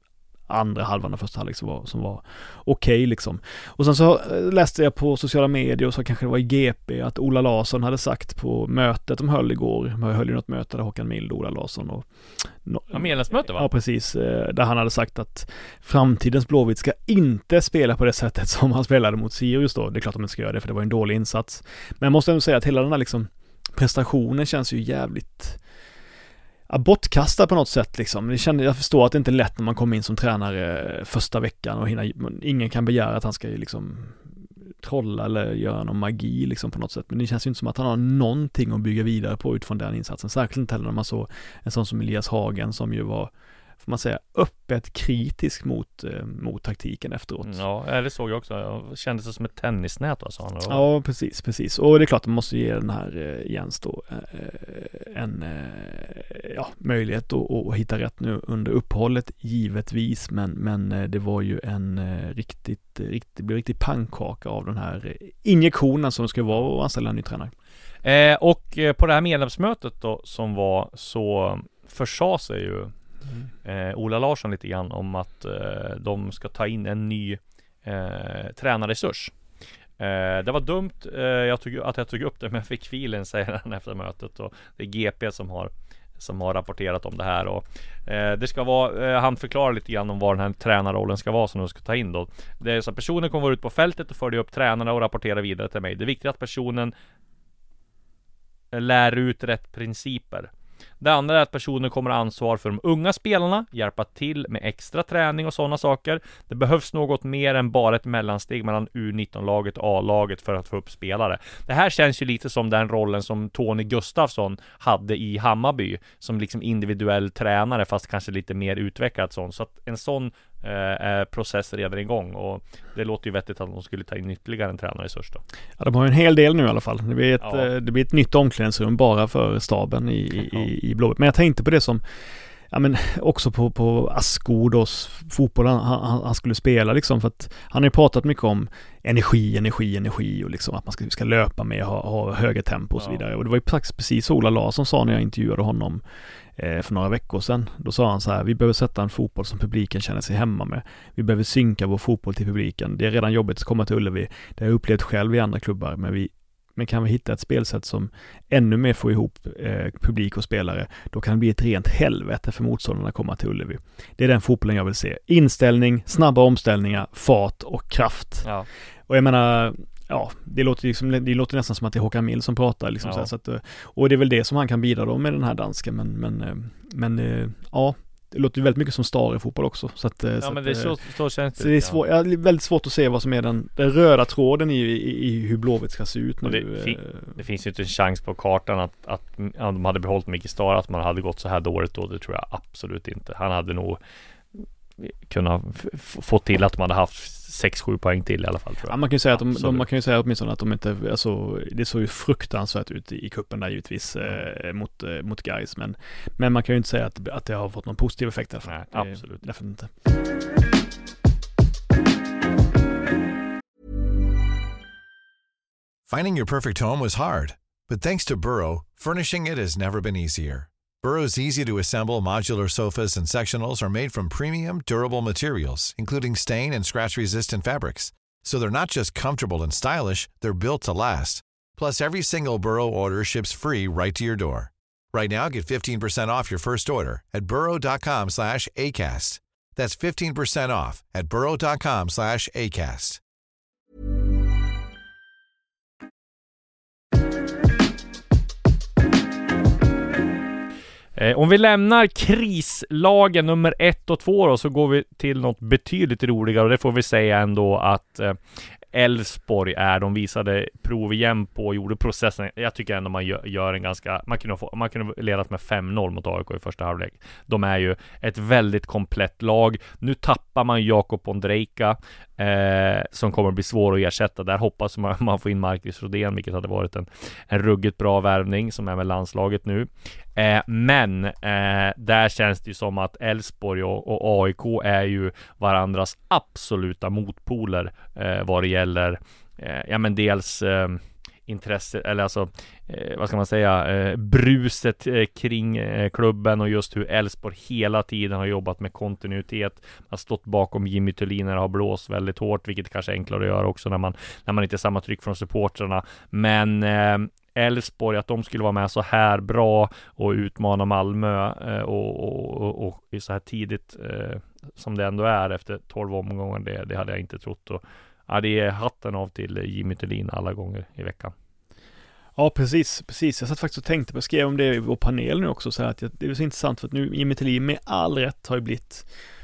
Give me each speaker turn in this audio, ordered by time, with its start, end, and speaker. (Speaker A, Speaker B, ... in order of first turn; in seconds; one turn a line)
Speaker A: 0.5-25.6
Speaker B: 12.9-13.7
Speaker A: 26.7-47.6
Speaker B: 47.4-50.8
Speaker A: 50.7-67.5
Speaker B: 68.0-72.9
Speaker B: 73.6-79.3
Speaker B: 80.0-96.9
Speaker B: 98.7-125.4
Speaker A: 125.8-132.0
Speaker B: 127.4-127.7
Speaker A: 132.7-146.0
Speaker A: 146.6-168.5
Speaker A: 169.1-181.0
Speaker B: 173.0-173.3
Speaker B: 180.4-182.0
Speaker A: 181.6-187.4
Speaker B: 186.4-194.0
Speaker B: 195.0-199.8
Speaker A: 198.8-209.9
Speaker B: 208.6-209.5
Speaker C: 216.1-243.2
Speaker B: 251.2-321.3
Speaker A: 322.4-329.1